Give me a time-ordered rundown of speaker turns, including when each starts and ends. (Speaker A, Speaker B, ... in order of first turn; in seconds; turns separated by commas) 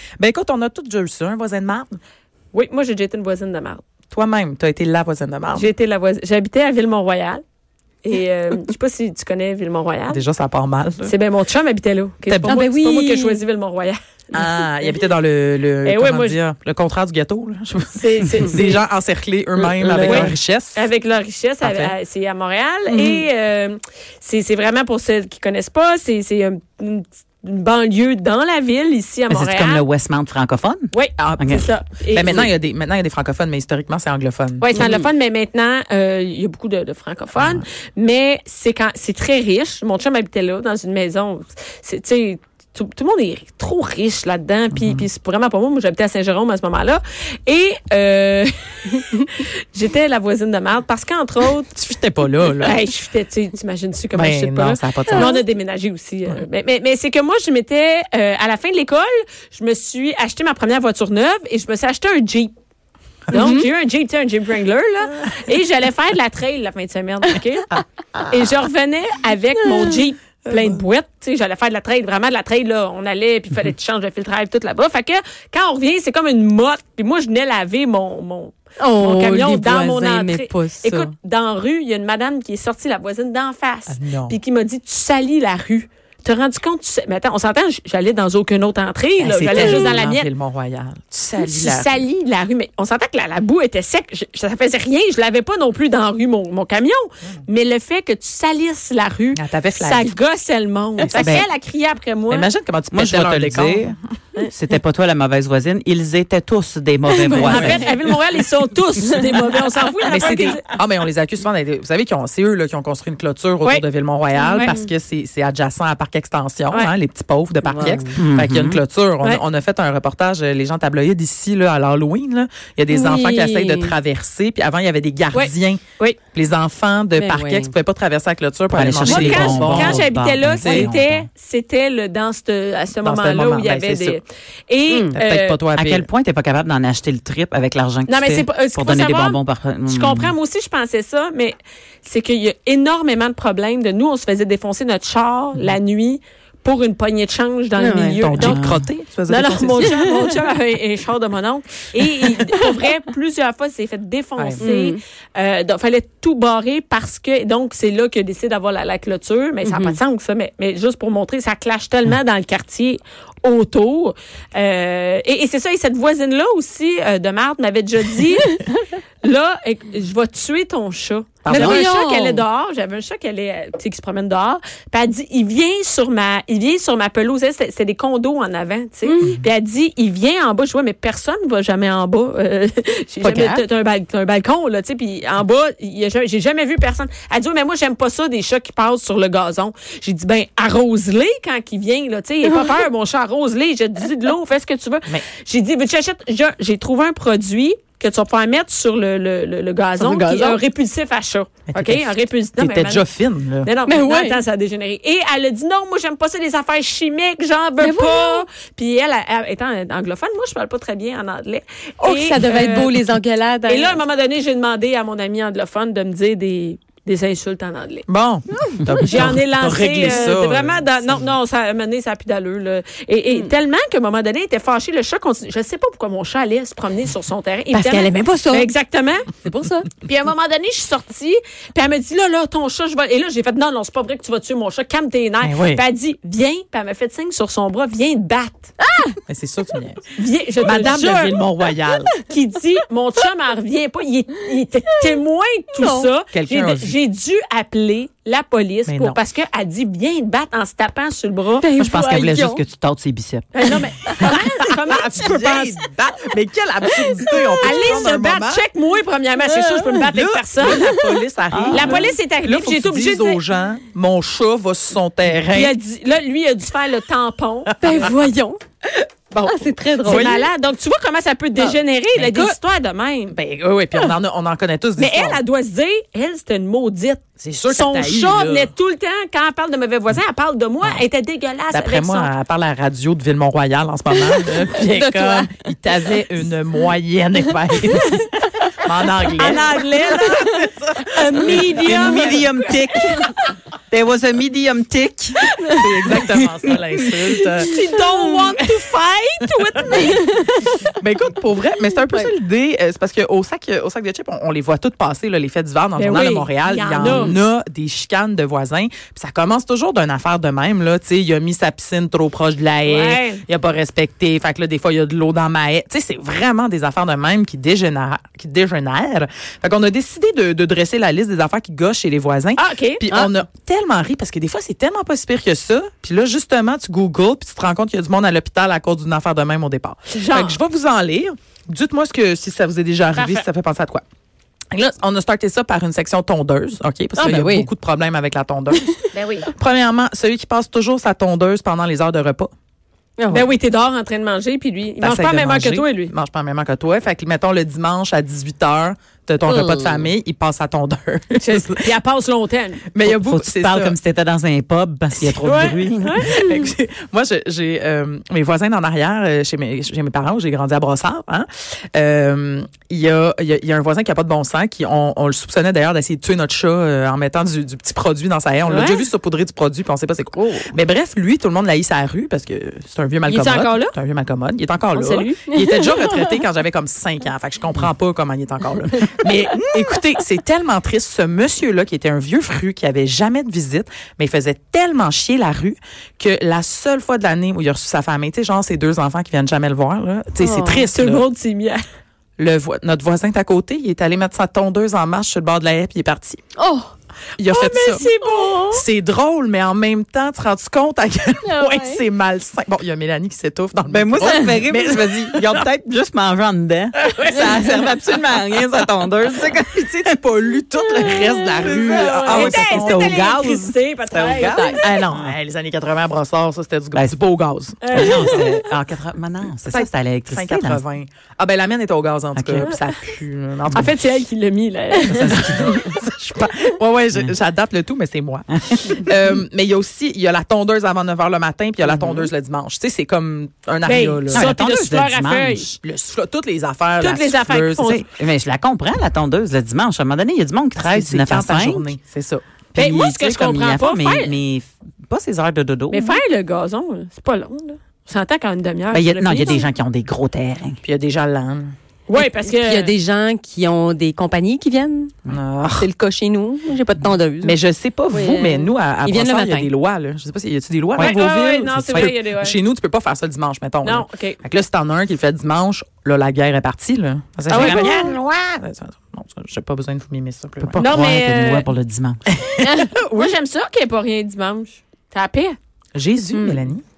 Speaker A: 0.2-2.0, Speaker B: 2.5-3.8, Speaker A: 4.1-5.7, Speaker B: 5.5-7.4, Speaker B: 8.0-10.2, Speaker A: 10.1-11.1, Speaker B: 11.0-14.0, Speaker A: 12.3-12.6, Speaker C: 12.4-13.4, Speaker A: 14.3-20.8, Speaker B: 15.8-16.4, Speaker B: 17.9-18.8, Speaker C: 19.6-20.3, Speaker B: 20.0-29.8, Speaker A: 21.6-21.9, Speaker A: 22.9-23.2, Speaker D: 29.3-31.7, Speaker B: 30.9-32.5, Speaker A: 31.2-31.6, Speaker A: 32.1-34.7, Speaker B: 34.6-51.7, Speaker A: 37.4-37.6, Speaker A: 44.7-45.0, Speaker A: 51.7-52.8, Speaker B: 52.6-62.5, Speaker A: 54.1-55.4, Speaker C: 55.1-55.4, Speaker B: 63.3-67.7, Speaker C: 63.3-63.7, Speaker B: 68.3-90.3, Speaker C: 69.6-70.0, Speaker A: 70.5-70.8, Speaker C: 78.8-81.1, Speaker A: 83.9-84.4, Speaker A: 89.2-92.0, Speaker B: 91.4-102.5, Speaker A: 99.3-100.1, Speaker A: 101.0-101.5, Speaker A: 102.3-104.0, Speaker D: 102.9-104.0, Speaker D: 104.5-107.8, Speaker C: 107.2-107.8, Speaker A: 107.3-108.0, Speaker B: 107.4-110.7, Speaker A: 110.0-125.8, Speaker C: 114.3-114.9, Speaker C: 117.6-118.1, Speaker D: 118.2-118.8, Speaker C: 122.9-124.0, Speaker B: 125.3-126.2, Speaker A: 126.3-130.1, Speaker C: 127.1-127.7, Speaker D: 128.7-131.3, Speaker B: 129.0-135.6, Speaker A: 130.6-130.9, Speaker A: 133.0-134.2, Speaker C: 134.9-135.2, Speaker A: 135.1-136.1, Speaker D: 135.7-140.3, Speaker B: 138.1-148.7, Speaker C: 147.8-148.2, Speaker A: 148.2-150.2, Speaker D: 148.4-148.8, Speaker B: 149.3-203.1, Speaker C: 149.8-150.3, Speaker A: 154.4-154.6, Speaker C: 154.6-155.0, Speaker C: 159.6-160.0, Speaker A: 171.4-171.8, Speaker C: 171.5-172.4, Speaker D: 171.5-171.8, Speaker C: 179.0-179.4, Speaker C: 183.2-183.6, Speaker C: 200.0-200.6, Speaker A: 201.7-203.7, Speaker B: 203.6-213.0, Speaker C: 203.9-204.4, Speaker C: 207.8-208.4, Speaker C: 212.0-214.0, Speaker B: 213.7-218.1, Speaker A: 218.1-221.3, Speaker C: 218.6-219.3, Speaker B: 219.0-229.3, Speaker C: 227.7-228.7, Speaker C: 229.4-229.9, Speaker B: 230.0-238.7, Speaker A: 235.4-235.8, Speaker C: 238.8-239.2, Speaker A: 239.3-240.0, Speaker B: 240.2-241.4, Speaker A: 240.6-242.1, Speaker B: 242.2-251.7, Speaker C: 245.8-246.1, Speaker A: 246.3-246.9, Speaker A: 248.9-249.2, Speaker C: 251.6-252.6, Speaker D: 251.8-253.4, Speaker B: 253.5-255.8, Speaker A: 254.2-258.6, Speaker C: 257.2-257.8, Speaker B: 257.6-260.9, Speaker C: 259.4-260.0, Speaker A: 260.1-265.8, Speaker C: 260.6-261.2, Speaker D: 261.5-262.0, Speaker B: 261.7-263.4, Speaker B: 265.5-268.1, Speaker C: 267.8-268.6, Speaker C: 269.4-270.5, Speaker A: 270.0-270.4, Speaker B: 270.0-273.3, Speaker A: 272.1-272.6, Speaker A: 273.3-275.4, Speaker B: 275.0-282.3, Speaker A: 277.4-278.7, Speaker A: 281.7-292.4, Speaker C: 284.1-285.5, Speaker B: 289.4-293.4, Speaker D: 291.6-293.3, Speaker D: 293.9-295.4, Speaker A: 295.8-297.7, Speaker B: 297.6-300.4, Speaker C: 300.0-300.5, Speaker A: 300.8-334.0, Speaker C: 302.0-302.3, Speaker B: 305.9-307.4, Speaker C: 307.0-307.3, Speaker B: 312.9-313.4, Speaker B: 322.6-323.0, Speaker B: 330.1-330.6, Speaker B: 333.1-333.4, Speaker A: 334.7-339.0, Speaker C: 337.1-337.7, Speaker B: 339.1-339.5, Speaker A: 339.5-342.5, Speaker C: 343.2-343.5, Speaker B: 343.3-346.1, Speaker A: 345.0-351.9, Speaker C: 349.4-350.1, Speaker B: 351.4-352.8, Speaker A: 352.9-353.9, Speaker D: 353.0-356.3, Speaker A: 355.2-391.2, Speaker B: 355.4-356.4, Speaker B: 368.7-369.0, Speaker B: 373.3-373.9, Speaker B: 374.9-375.4, Speaker C: 375.5-376.4, Speaker C: 390.4-390.9, Speaker B: 390.9-391.8, Speaker A: 392.4-396.4, Speaker C: 396.6-396.9, Speaker A: 397.4-398.0, Speaker B: 397.5-398.6, Speaker C: 398.0-398.8, Speaker A: 398.7-405.6, Speaker C: 401.4-402.0, Speaker D: 403.9-410.1, Speaker A: 407.1-407.8, Speaker A: 409.9-413.3, Speaker C: 411.0-411.7, Speaker D: 411.6-415.3, Speaker B: 411.9-414.8, Speaker C: 414.5-414.9, Speaker A: 414.8-418.5, Speaker D: 416.9-417.2, Speaker B: 417.8-418.5, Speaker D: 417.9-420.8, Speaker A: 419.7-424.0, Speaker D: 422.4-422.7, Speaker B: 423.7-425.8, Speaker A: 425.0-434.5, Speaker D: 431.9-432.3, Speaker B: 433.8-435.7, Speaker D: 434.3-435.8, Speaker A: 435.8-438.0, Speaker B: 437.0-438.0, Speaker D: 437.8-441.9, Speaker A: 440.8-442.4, Speaker D: 442.7-446.2, Speaker B: 442.8-444.3, Speaker B: 445.9-449.6, Speaker D: 448.9-450.8, Speaker A: 450.8-451.7, Speaker B: 452.1-452.9, Speaker C: 452.1-455.1, Speaker A: 455.3-455.9, Speaker C: 455.7-457.6, Speaker A: 457.4-470.8, Speaker C: 458.1-459.7, Speaker B: 461.0-462.6, Speaker B: 463.8-464.4, Speaker B: 467.5-468.1, Speaker C: 467.5-467.9, Speaker D: 470.6-472.2, Speaker B: 470.8-471.7, Speaker A: 472.4-472.9, Speaker B: 472.8-475.6, Speaker A: 475.9-476.8, Speaker C: 476.3-476.6